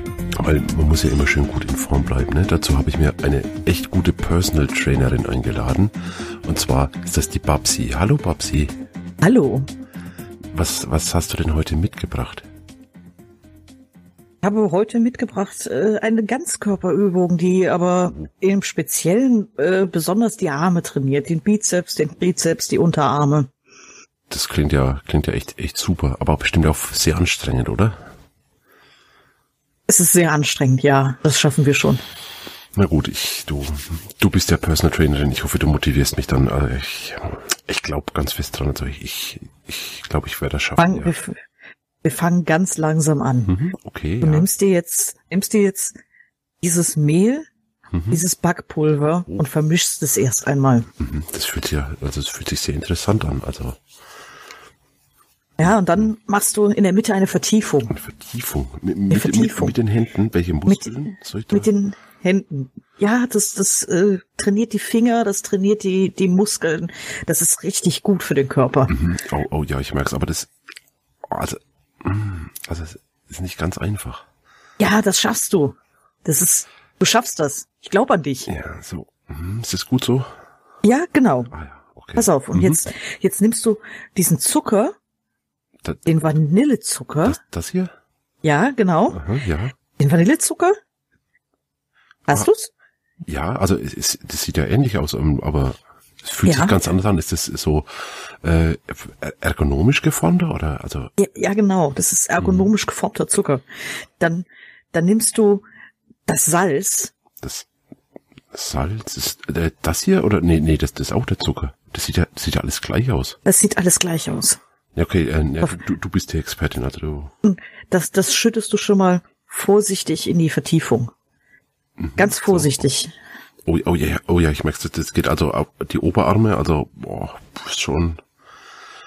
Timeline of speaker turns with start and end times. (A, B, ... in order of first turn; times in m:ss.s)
0:00.3-0:08.8 A
0:09.2-0:09.7 B
0:10.5-0:12.5 A
0:14.4-0:23.5 B
0:24.3-0:28.0 A
0:29.9-0:32.0 B
0:32.7-0:41.1 A
0:40.8-0:41.4 B
0:42.0-0:43.6 B
0:43.5-0:44.5 A
0:44.2-0:46.0 B
0:46.6-0:47.4 B
0:47.9-0:48.2 A
0:48.1-0:50.9 B
0:51.0-0:53.8 A
0:55.6-0:57.9 B
0:55.6-0:56.0 A
0:57.9-1:01.7 A
0:59.1-0:59.8 B
1:00.6-1:08.9 B
1:08.9-1:10.5 A
1:11.2-1:14.2 A
1:14.8-1:18.5 B
1:18.5-1:20.3 A
1:20.8-1:21.5 B
1:21.5-1:22.8 A
1:22.2-1:25.0 B
1:26.0-1:27.4 B
1:27.2-1:27.9 A
1:28.4-1:29.2 B
1:29.1-1:29.8 A
1:30.0-1:30.8 B
1:32.3-1:32.7 B
1:33.3-1:41.1 A
1:36.4-1:36.8 B
1:41.2-1:43.6 B
1:42.4-1:42.7 A
1:44.2-1:45.6 B
1:46.3-1:47.1 B
1:47.4-1:47.7 A
1:48.5-1:53.4 A
1:53.4-1:54.6 B
1:54.9-1:57.3 A
1:57.4-2:01.1 B
2:02.0-2:02.8 A
2:02.2-2:03.1 B
2:03.6-2:08.2 A